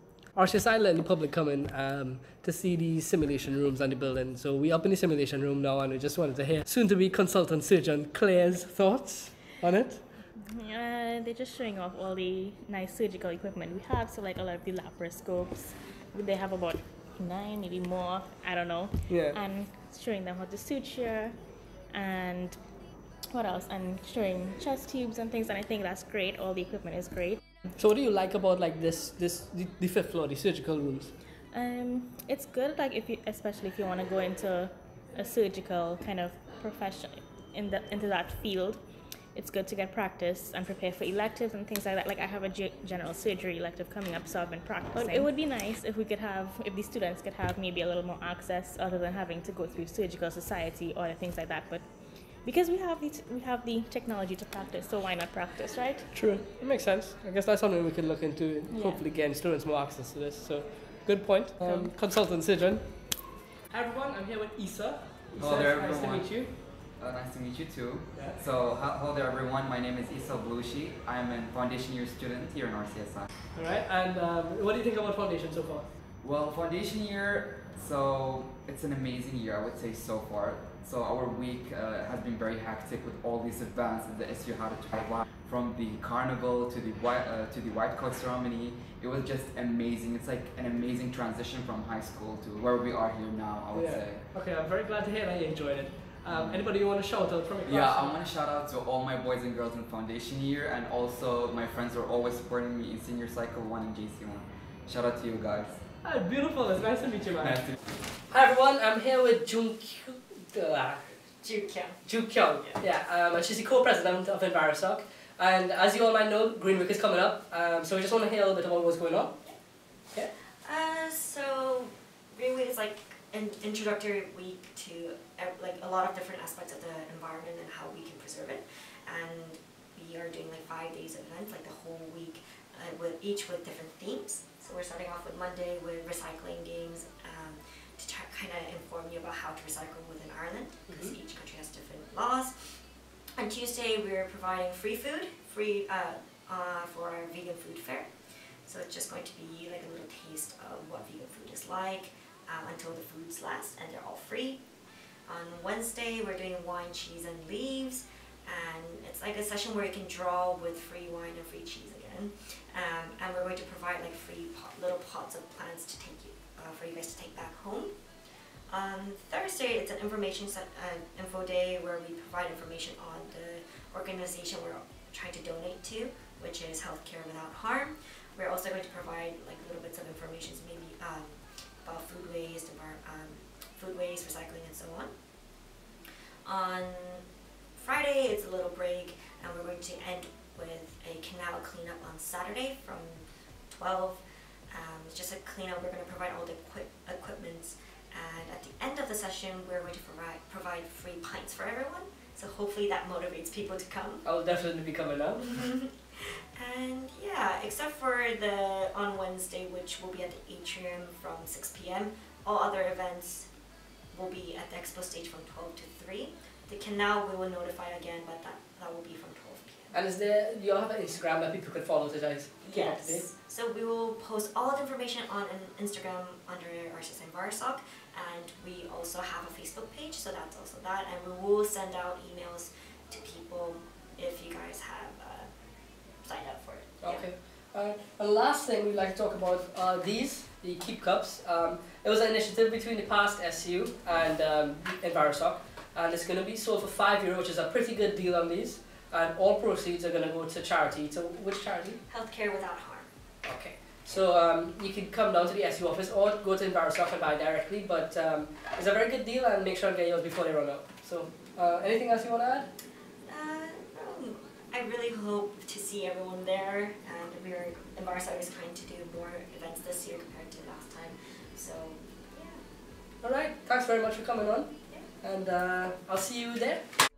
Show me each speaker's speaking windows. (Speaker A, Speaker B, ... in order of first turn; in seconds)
Speaker A: 0.3-10.0, 19.1-19.4, 27.8-31.1, 56.1-62.9, 63.7-66.5, 68.1-68.4, 73.5-75.9, 93.7-98.1, 106.0-107.7, 108.3-111.1, 112.0-119.3, 204.2-205.6, 219.9-223.2, 237.0-252.0, 253.4-262.7, 273.2-274.7, 275.2-276.8
Speaker B: 10.3-22.6, 23.3-27.4, 31.5-38.8, 39.3-51.9, 52.4-56.1, 58.7-59.0, 61.6-61.9
Speaker C: 65.4-73.3, 76.2-94.3, 96.2-96.7, 97.7-105.8
Speaker D: 111.4-112.0, 112.5-112.8, 120.6-142.7, 143.4-148.1, 148.6-154.6, 155.3-167.9, 168.7-185.1, 186.4-187.2, 187.8-204.2, 205.5-213.5, 214.1-220.0, 222.6-235.5, 236.2-237.3, 252.1-253.1, 263.2-272.6